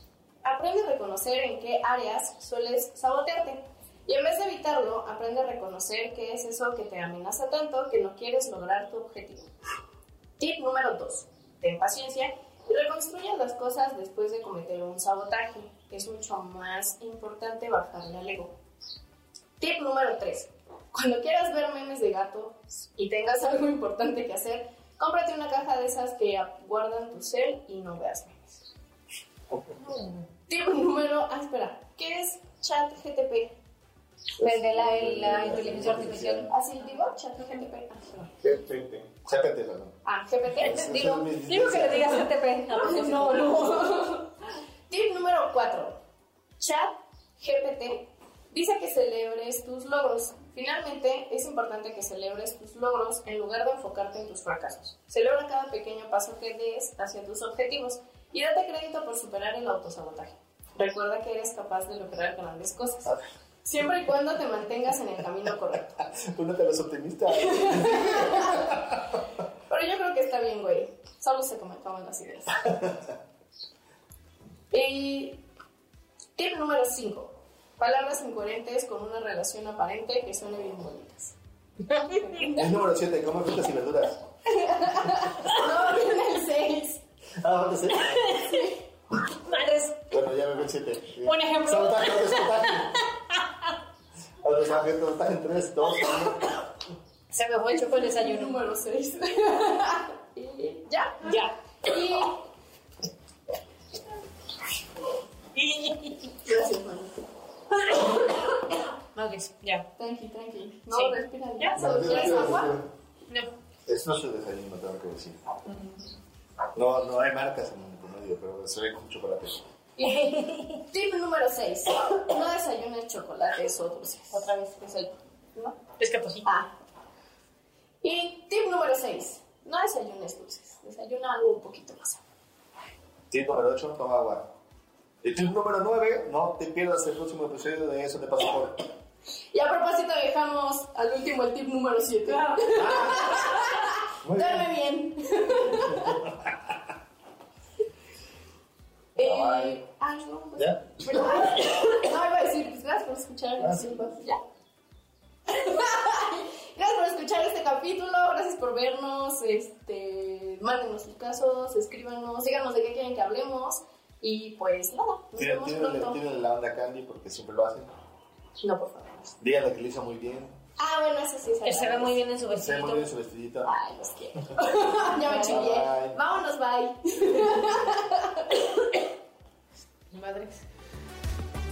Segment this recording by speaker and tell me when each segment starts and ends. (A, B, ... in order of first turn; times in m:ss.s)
0:00.4-0:09.5 A
0:10.4-0:18.6 A
0:19.6-0:28.6 A
0:29.8-0:30.2 B
0:30.5-0:33.6 A
0:34.4-0:36.5 C
0:34.4-0:36.5 B
0:36.5-0:38.4 A
0:38.4-0:40.0 C
0:40.0-0:40.8 A
0:40.6-0:42.2 C
0:40.6-0:43.8 B
0:42.7-0:44.4 A
0:44.9-0:46.0 A
0:46.6-1:06.0 A
1:06.0-1:09.1 C
1:07.3-1:08.8 A
1:09.7-1:12.7 A
1:12.7-1:13.0 C
1:14.7-1:15.4 A
1:16.4-1:21.4 A
1:21.9-1:22.6 B
1:22.1-1:22.6 A
1:22.5-1:24.3 C
1:24.5-1:27.0 A
1:27.4-1:28.4 C
1:28.0-1:28.7 B
1:28.4-1:28.8 A
1:29.3-1:30.1 B
1:30.1-1:33.0 C
1:31.2-1:33.7 B
1:34.4-1:36.7 C
1:37.3-1:38.6 B
1:37.7-1:41.3 A
1:41.2-1:41.5 B
1:41.8-1:42.4 A
1:45.6-1:46.3 B
1:46.4-1:47.2 A
1:47.8-1:49.9 B
1:50.0-1:52.7 A
1:50.9-1:52.7 B
1:51.7-1:52.9 C
1:53.9-1:55.4 C
1:56.7-1:59.6 C
2:00.0-2:00.3 A
2:00.0-2:00.8 B
2:00.8-2:05.8 A
2:04.3-2:04.8 B
2:06.0-2:06.5 B
2:06.4-2:06.7 A
2:08.0-2:12.2 A
2:13.3-2:14.5 C
2:15.2-2:18.8 C
2:19.5-2:26.2 A
2:22.8-2:23.6 C
2:24.2-2:24.7 C
2:25.7-2:26.7 C
2:29.2-2:34.4 A
2:29.2-2:29.8 C
2:30.6-2:31.8 C
2:33.6-2:34.2 C
2:35.5-2:46.2 A
2:45.4-2:47.9 C
2:48.6-2:49.3 A
2:49.4-2:50.5 C
2:50.8-2:52.2 A
2:51.6-2:53.1 B
2:52.5-2:53.7 C
2:53.6-2:58.9 A
2:55.2-2:55.7 B
2:55.4-2:56.2 C
3:00.1-3:00.6 B